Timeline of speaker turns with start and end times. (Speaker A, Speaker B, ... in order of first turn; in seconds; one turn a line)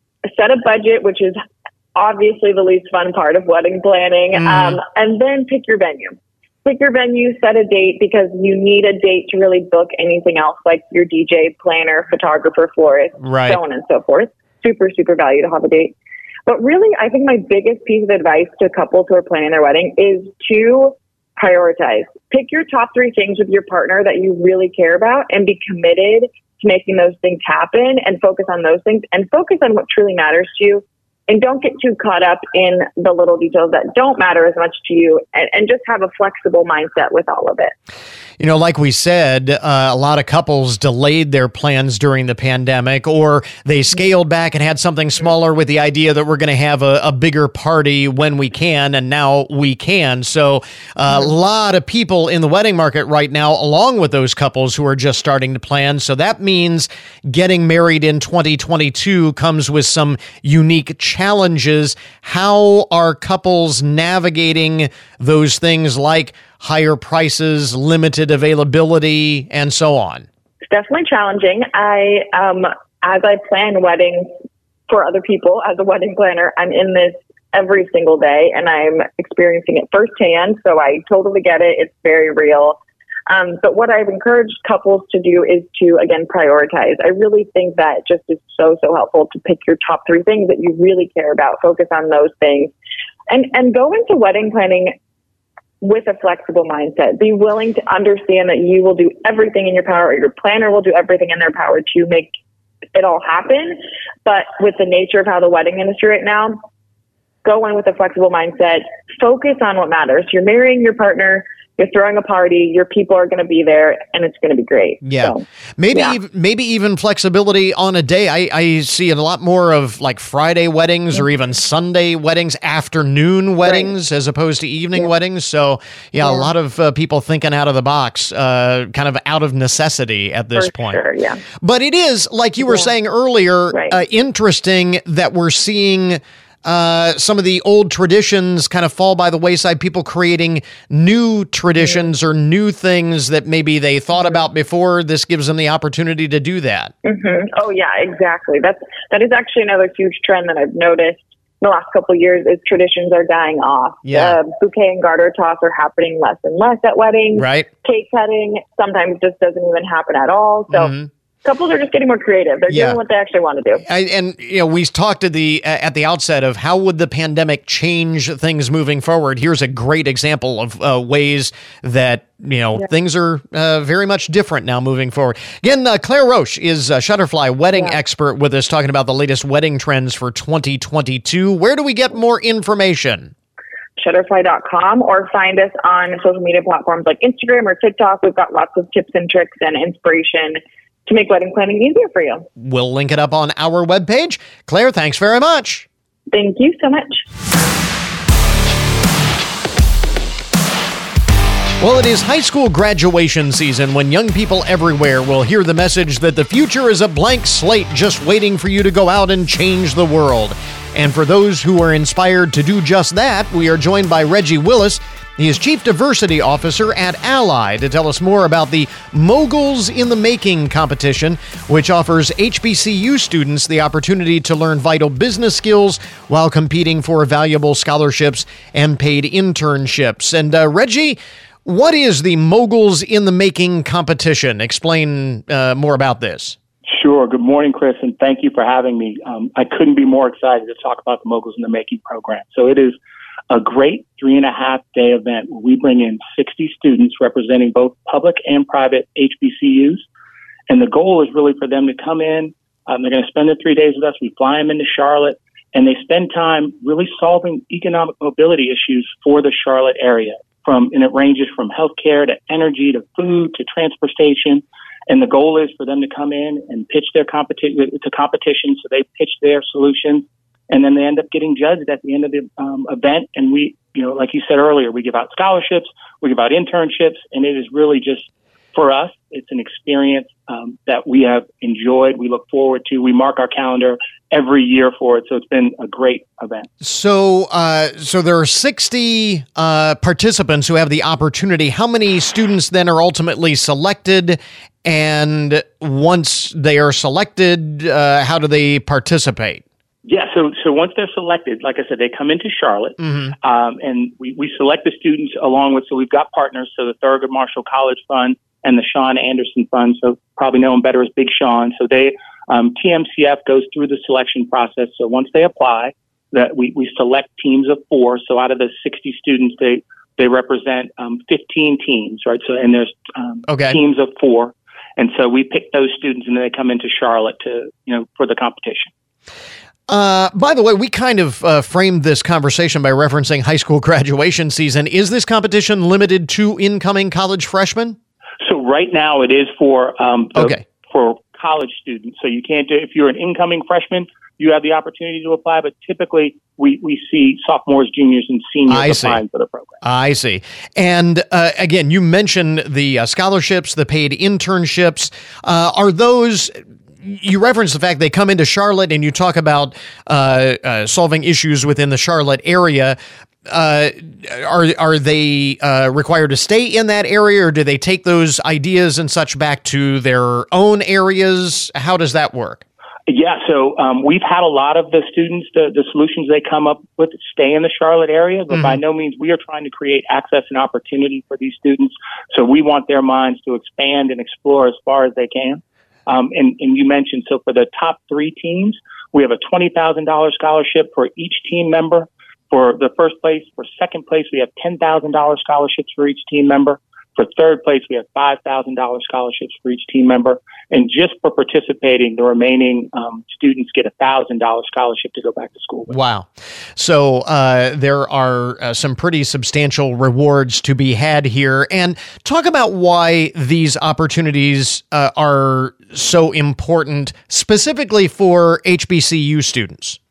Speaker A: 0.3-1.4
Speaker A: 1.9-15.9
Speaker B: 4.3-4.8
Speaker B: 13.2-13.6
Speaker A: 16.5-37.7
Speaker B: 38.4-70.3
Speaker A: 70.7-74.3
Speaker A: 74.9-92.7
Speaker A: 93.3-95.0
Speaker A: 95.8-102.3
Speaker A: 103.0-106.6
Speaker A: 107.5-116.1
Speaker B: 115.0-131.0
Speaker A: 123.7-123.9
Speaker A: 126.2-126.5
Speaker A: 130.6-131.4
Speaker B: 131.6-146.9
Speaker A: 133.7-134.0
Speaker A: 147.1-163.8
Speaker B: 154.1-154.4
Speaker B: 157.4-157.7
Speaker B: 160.7-161.1
Speaker B: 162.7-163.0
Speaker B: 163.8-183.3
Speaker A: 184.0-192.5
Speaker B: 192.6-195.9
Speaker A: 196.3-197.2
Speaker B: 201.8-236.6
Speaker C: 236.9-243.0
Speaker C: 243.5-250.0
Speaker C: 250.7-286.7
Speaker B: 286.8-299.6
Speaker C: 300.1-328.9
Speaker B: 303.0-303.3
Speaker B: 323.5-323.8
Speaker B: 329.9-338.0
Speaker C: 338.4-349.8
Speaker B: 340.4-340.6
Speaker B: 348.7-349.2
Speaker B: 349.8-372.6
Speaker C: 373.1-405.9
Speaker B: 378.5-378.8
Speaker B: 405.9-420.0